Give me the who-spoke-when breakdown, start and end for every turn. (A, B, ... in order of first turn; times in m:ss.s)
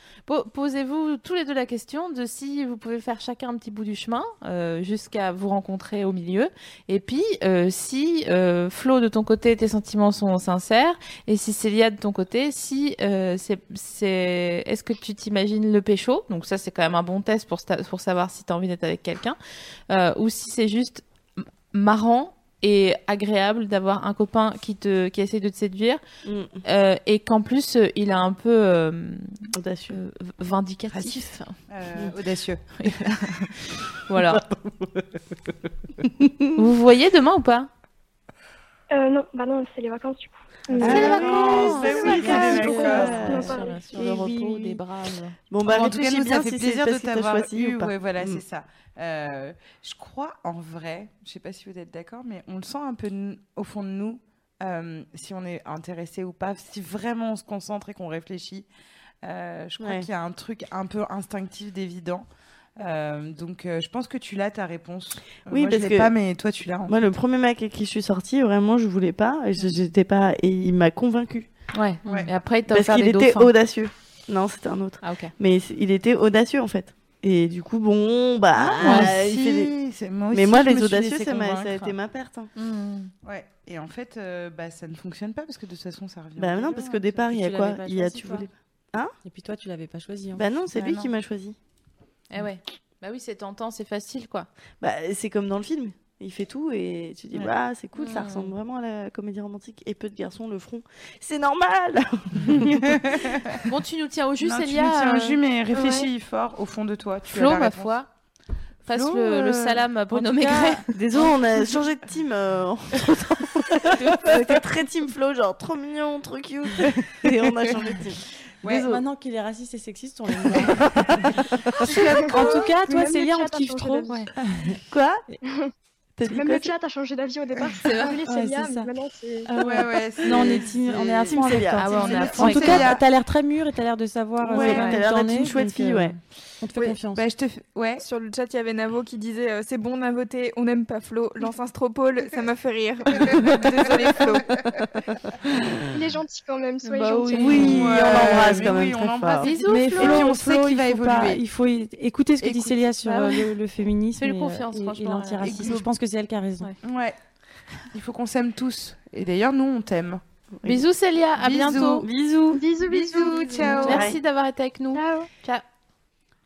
0:00.3-0:19.4 A
0:19.9-0:21.0 A
0:21.7-0:26.0 A
0:26.2-0:26.6 B
0:26.6-0:29.3 A
0:29.6-0:30.0 B
0:29.9-0:31.6 A
0:30.9-0:33.0 C
0:32.8-0:33.5 A
0:34.1-0:34.4 A
0:34.3-0:35.0 B
0:36.1-0:36.6 B
0:36.6-0:37.7 A
0:38.9-0:43.8 D
0:40.8-0:44.8 B
0:40.8-0:43.4 C
0:40.8-0:45.4 A
0:42.1-0:43.6 E
0:45.5-0:48.4 B
0:45.6-0:58.7 C
0:59.2-1:02.2 C
0:59.8-1:00.1 B
1:02.8-1:06.9 C
1:05.5-1:06.1 B
1:06.9-1:11.5 B
1:11.7-1:13.5 A
1:12.1-1:12.3 C
1:12.7-1:19.7 B
1:15.0-1:15.3 A
1:18.6-1:22.0 C
1:18.8-1:19.1 A
1:20.3-1:22.5 B
1:22.6-1:23.1 A
1:23.2-1:27.2 C
1:26.4-1:29.1 B
1:27.3-1:28.5 E
1:29.2-1:30.4 E
1:30.4-1:31.6 B
1:30.7-1:31.1 A
1:32.3-1:34.5 A
1:34.8-1:43.6 B
1:38.0-1:38.5 A
1:42.5-1:43.5 C
1:43.7-1:45.4 A
1:44.4-1:48.0 C
1:45.7-1:46.1 D
1:47.3-1:48.1 A
1:48.8-1:51.3 A
1:48.9-1:50.6 C
1:50.9-1:59.0 B
1:54.0-1:54.6 A
1:57.2-1:57.9 C
1:58.6-1:59.0 C
1:58.7-2:01.3 E
2:00.4-2:01.8 B
2:01.9-2:04.3 D
2:01.9-2:04.8 E
2:02.2-2:02.7 C
2:04.9-2:05.2 B
2:06.2-2:06.7 B
2:06.3-2:09.5 D
2:07.8-2:08.2 A
2:08.3-2:08.9 E
2:09.5-2:17.2 E
2:09.6-2:11.4 C
2:10.3-2:12.8 B
2:11.8-2:12.9 A
2:12.0-2:13.0 C
2:14.4-2:16.1 B
2:14.4-2:14.9 C
2:16.8-2:18.0 C
2:18.0-2:24.5 F
2:23.9-2:24.3 C
2:25.9-2:27.6 D
2:26.9-2:28.7 E
2:27.1-2:27.5 A
2:27.3-2:29.5 B
2:27.4-2:31.4 C
2:29.4-2:30.2 A
2:29.7-2:36.7 E
2:32.4-2:32.8 C
2:33.0-2:33.5 A
2:34.2-2:35.8 A
2:35.4-2:35.9 C
2:36.8-2:37.2 C
2:37.9-2:40.2 C
2:40.6-2:42.0 A
2:41.4-2:42.1 C
2:42.0-2:44.2 B
2:42.5-2:44.1 D
2:43.1-2:44.1 C
2:43.4-2:45.6 A
2:44.9-2:45.3 D